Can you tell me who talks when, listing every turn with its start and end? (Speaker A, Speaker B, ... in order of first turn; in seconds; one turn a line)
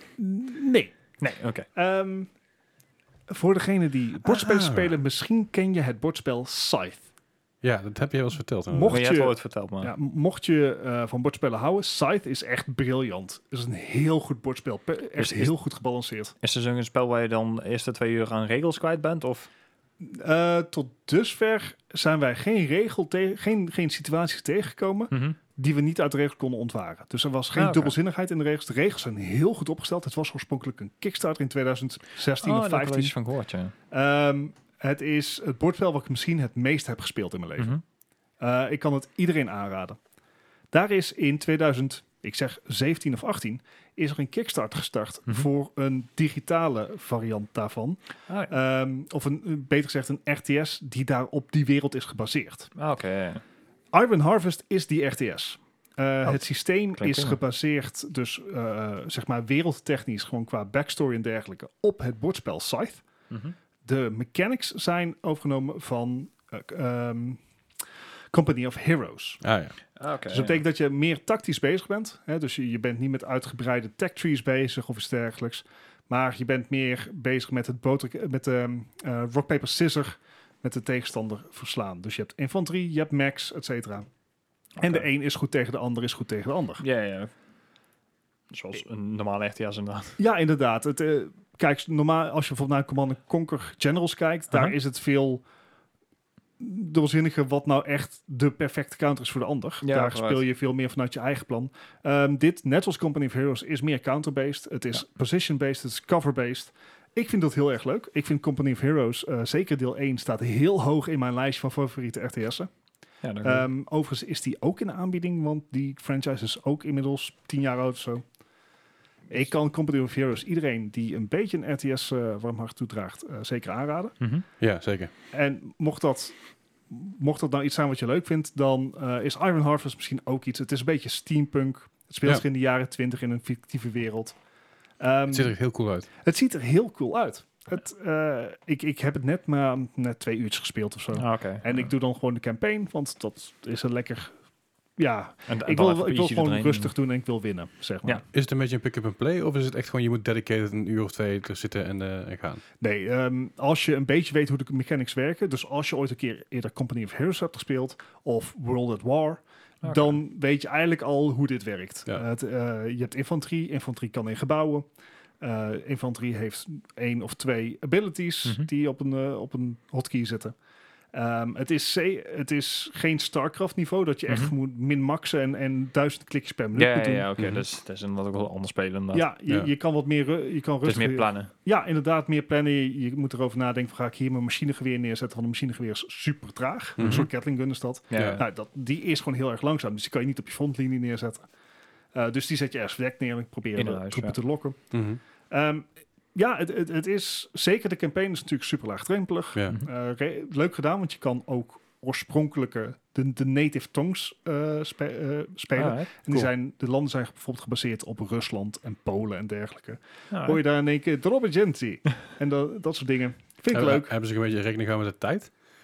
Speaker A: 0.2-1.1
Speaker B: 1.2-1.7
Speaker A: 1.7-2.3
Speaker A: 3.3-7.0
Speaker C: 4.2-5.0
Speaker C: 7.6-9.0
Speaker A: 8.7-16.3
Speaker B: 8.8-9.9
Speaker B: 15.2-15.5
Speaker B: 16.4-19.5
Speaker A: 20.0-33.1
Speaker B: 25.1-25.4
Speaker B: 27.6-27.9
Speaker B: 32.4-33.7
Speaker A: 33.9-37.8
Speaker A: 38.4-40.0
Speaker A: 40.7-48.0
Speaker B: 48.3-48.6
Speaker A: 48.5-52.7
Speaker B: 52.8-53.4
Speaker A: 53.9-63.0
Speaker B: 57.0-57.4
Speaker A: 63.9-67.4
Speaker A: 68.3-69.4
Speaker C: 69.4-69.8
Speaker B: 70.0-70.6
Speaker A: 70.3-84.1
Speaker B: 84.8-85.0
Speaker A: 84.8-86.8
Speaker B: 86.8-87.3
Speaker B: 88.5-90.2
Speaker A: 90.2-95.4
Speaker A: 96.6-112.7
Speaker B: 99.8-100.4
Speaker B: 113.2-113.7
Speaker A: 113.4-118.2
Speaker A: 119.3-124.2
Speaker B: 124.2-124.5
Speaker C: 124.6-125.1
Speaker A: 125.3-126.4
Speaker A: 126.9-134.4
Speaker A: 135.0-135.5
Speaker C: 135.3-136.1
Speaker A: 136.2-144.3
Speaker B: 141.2-141.9
Speaker A: 145.0-148.2
Speaker B: 145.5-146.9
Speaker C: 148.3-152.6
Speaker A: 152.8-164.9
Speaker A: 165.4-170.6
Speaker A: 171.1-177.3
Speaker B: 174.3-174.5
Speaker B: 176.8-179.3
Speaker C: 177.4-177.6
Speaker A: 179.1-191.5
Speaker B: 180.8-181.5
Speaker C: 187.0-187.3
Speaker B: 187.0-187.3
Speaker B: 188.1-188.4
Speaker C: 188.1-188.4
Speaker A: 192.1-194.8
Speaker B: 193.8-194.3
Speaker C: 194.9-195.2
Speaker A: 195.5-214.1
Speaker B: 205.8-206.1
Speaker B: 210.3-210.6
Speaker C: 213.7-215.5